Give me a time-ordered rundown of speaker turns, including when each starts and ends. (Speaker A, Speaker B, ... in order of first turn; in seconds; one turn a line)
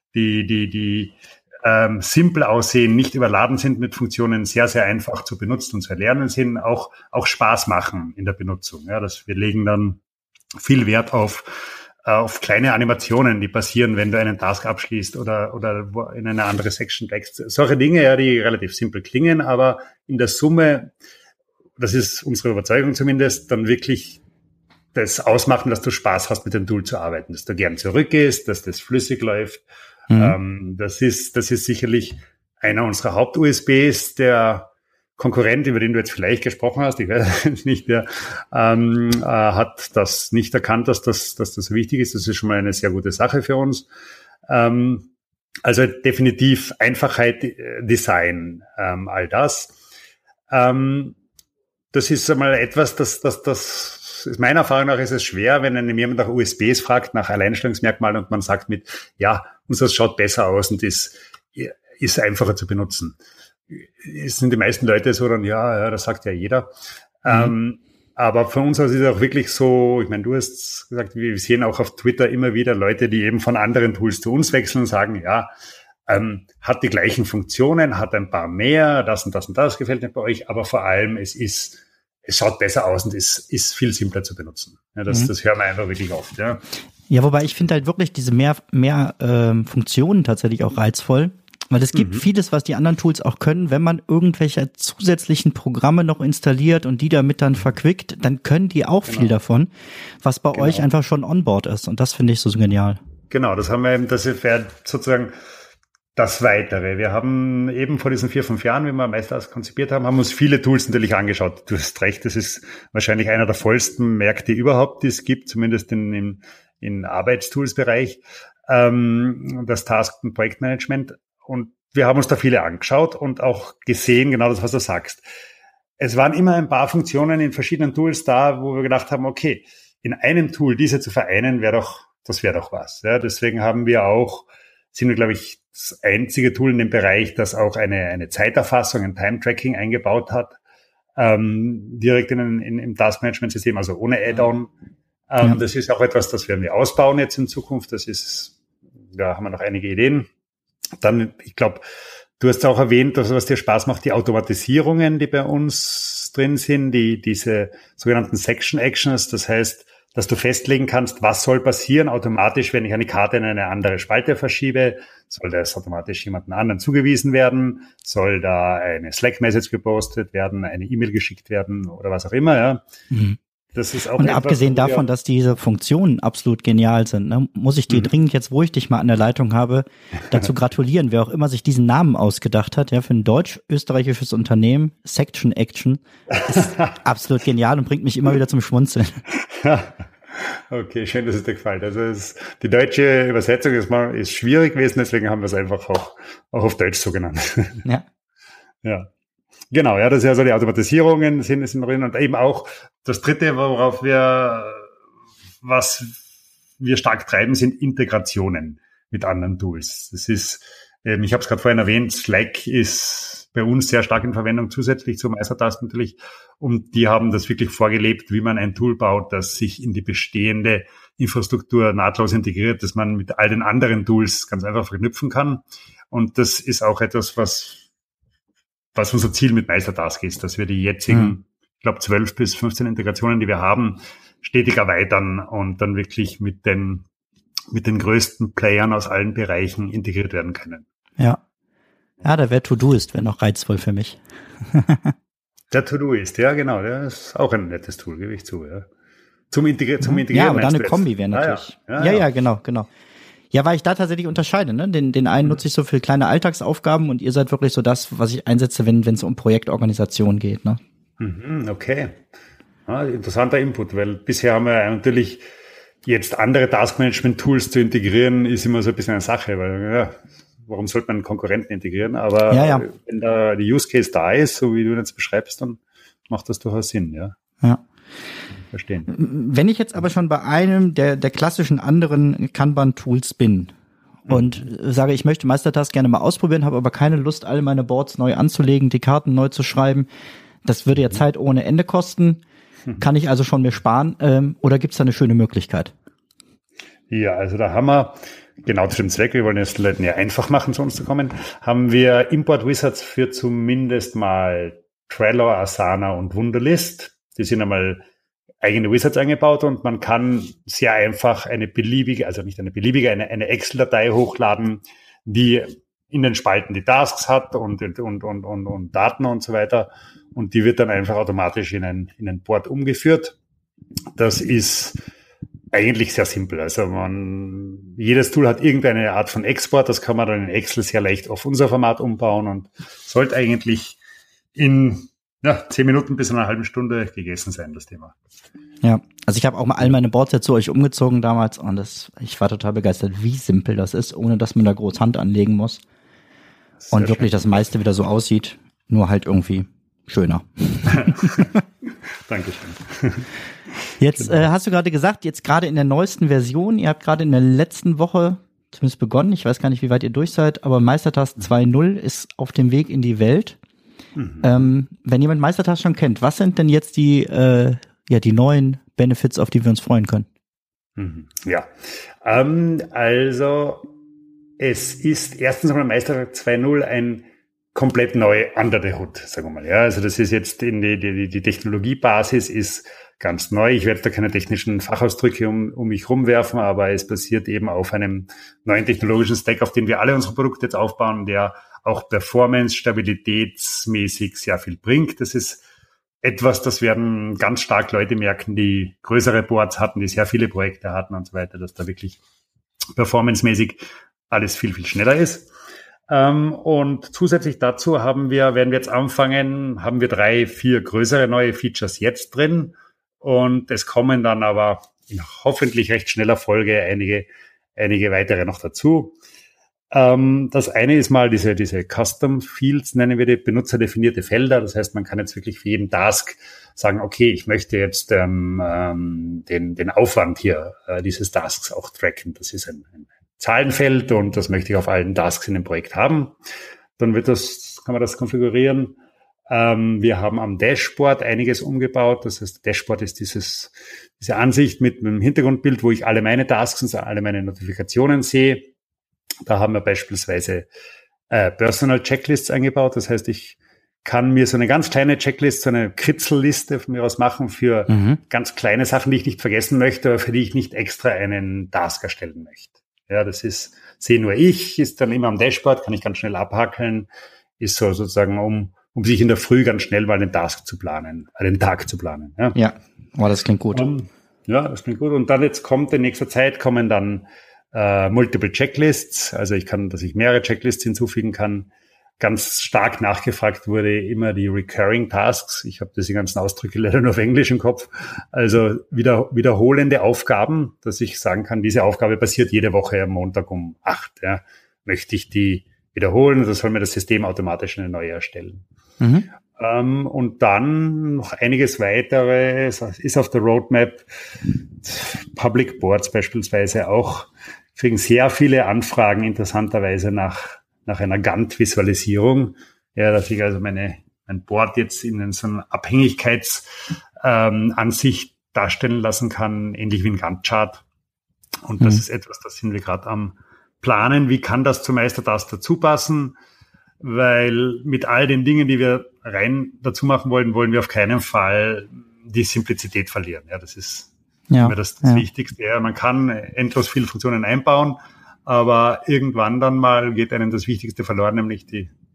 Speaker A: 0.1-10.0
Speaker A: 10.6-11.5
Speaker A: 12.1-20.9
Speaker A: 21.8-24.2
Speaker A: 24.9-29.6
Speaker B: 30.1-30.4
Speaker A: 30.1-43.9
Speaker A: 44.5-45.1
Speaker A: 45.6-49.8
Speaker A: 50.5-51.2
Speaker A: 51.9-63.2
Speaker A: 63.7-66.7
Speaker A: 67.2-75.5
Speaker A: 76.1-86.6
Speaker B: 87.1-103.0
Speaker A: 91.9-92.2
Speaker A: 100.5-100.9
Speaker A: 103.3-105.3
Speaker A: 106.2-125.2
Speaker A: 126.0-140.6
Speaker A: 141.2-144.7
Speaker A: 145.3-148.6
Speaker A: 149.2-150.3
Speaker A: 151.0-151.8
Speaker A: 152.4-172.8
Speaker B: 173.1-173.4
Speaker A: 173.8-175.1
Speaker B: 174.2-189.2
Speaker A: 186.5-186.9
Speaker A: 189.4-197.8
Speaker A: 198.8-199.1
Speaker A: 199.7-204.9
Speaker A: 205.6-206.2
Speaker A: 206.8-227.8
Speaker A: 228.9-237.1
Speaker A: 237.7-240.8
Speaker B: 242.2-245.1
Speaker A: 245.7-248.9
Speaker A: 249.5-252.3
Speaker B: 250.0-252.9
Speaker B: 253.5-260.8
Speaker A: 261.2-262.2
Speaker A: 262.9-265.4
Speaker A: 266.1-277.4
Speaker B: 272.5-272.9
Speaker A: 278.7-279.1
Speaker B: 279.1-283.7
Speaker B: 284.3-290.1
Speaker B: 290.6-292.4
Speaker B: 293.0-295.9
Speaker A: 297.1-308.0
Speaker A: 308.6-323.4
Speaker A: 324.2-325.0
Speaker A: 325.7-334.0
Speaker A: 334.6-338.1
Speaker B: 338.8-345.8
Speaker A: 346.9-347.4
Speaker B: 346.9-351.5
Speaker A: 350.9-351.5
Speaker A: 352.3-353.3
Speaker B: 354.0-363.6
Speaker A: 364.2-364.7
Speaker B: 364.4-370.3
Speaker A: 371.0-371.7
Speaker A: 372.2-373.9
Speaker A: 374.6-395.6
Speaker A: 396.2-402.2
Speaker A: 403.0-405.5
Speaker A: 406.1-419.1
Speaker A: 419.9-436.4
Speaker A: 437.0-439.0
Speaker A: 439.5-448.7
Speaker A: 449.5-450.7
Speaker A: 451.3-467.1
Speaker B: 457.9-458.2
Speaker A: 467.6-472.6
Speaker B: 472.5-473.9
Speaker A: 473.7-498.6
Speaker B: 499.0-499.3
Speaker A: 499.6-504.1
Speaker A: 504.8-516.6
Speaker A: 517.2-520.8
Speaker A: 521.7-526.4
Speaker A: 527.0-541.9
Speaker B: 534.5-535.2